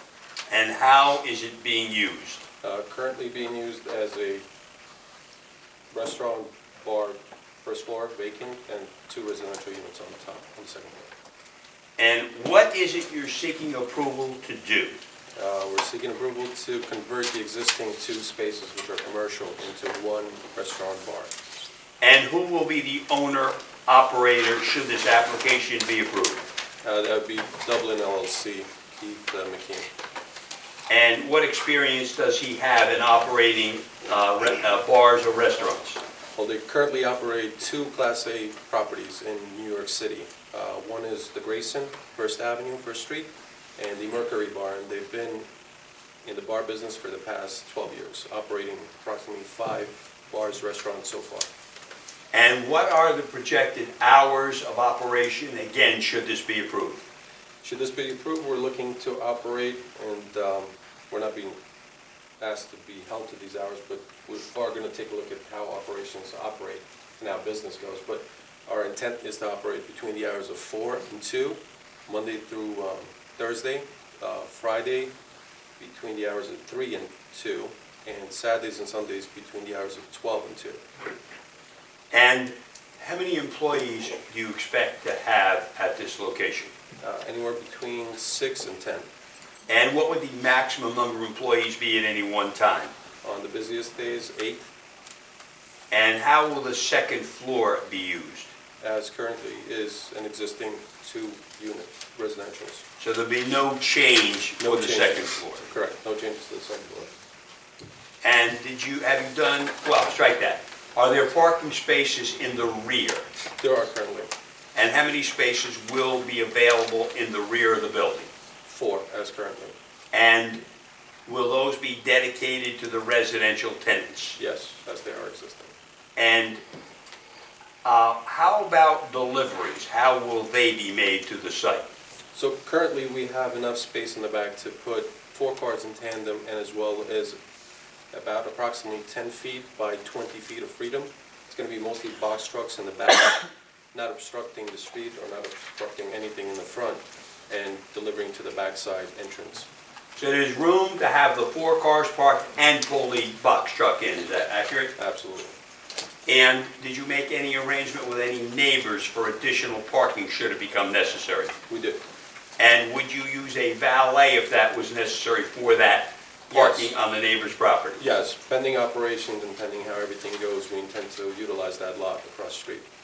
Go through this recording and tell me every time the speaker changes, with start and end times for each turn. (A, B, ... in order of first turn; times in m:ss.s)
0:00.5-0:02.4 A
0:02.6-0:04.4 B
0:05.9-0:11.1 B
0:12.0-0:15.0 A
0:15.4-0:21.3 B
0:22.0-0:26.5 A
0:26.8-0:29.9 B
0:30.9-0:36.0 A
0:36.3-0:45.5 B
0:46.2-0:51.5 B
0:52.3-0:57.0 A
0:57.6-1:01.6 B
1:02.4-1:15.1 B
1:15.8-1:20.8 B
1:22.1-1:26.7 A
1:27.0-1:29.1 B
1:29.7-1:32.9 A
1:33.2-1:34.6 B
1:35.9-1:38.5 A
1:38.8-1:42.8 B
1:43.0-1:45.7 A
1:44.6-1:47.1 B
1:48.2-1:53.2 A
1:53.6-1:54.3 B
1:54.7-1:58.3 A
1:58.6-1:59.7 B
2:00.1-2:00.6 A
2:01.2-2:04.4 A
2:04.4-2:05.7 B
2:06.2-2:06.6 A
2:07.8-2:11.8 A
2:12.3-2:17.4 B
2:18.1-2:23.4 B
2:23.9-2:29.7 B
2:30.2-2:34.9 A
2:35.0-2:35.6 B
2:36.2-2:41.5 A
2:41.7-2:42.0 B
2:42.6-2:48.0 A
2:46.5-2:46.9 B
2:48.0-2:52.8 B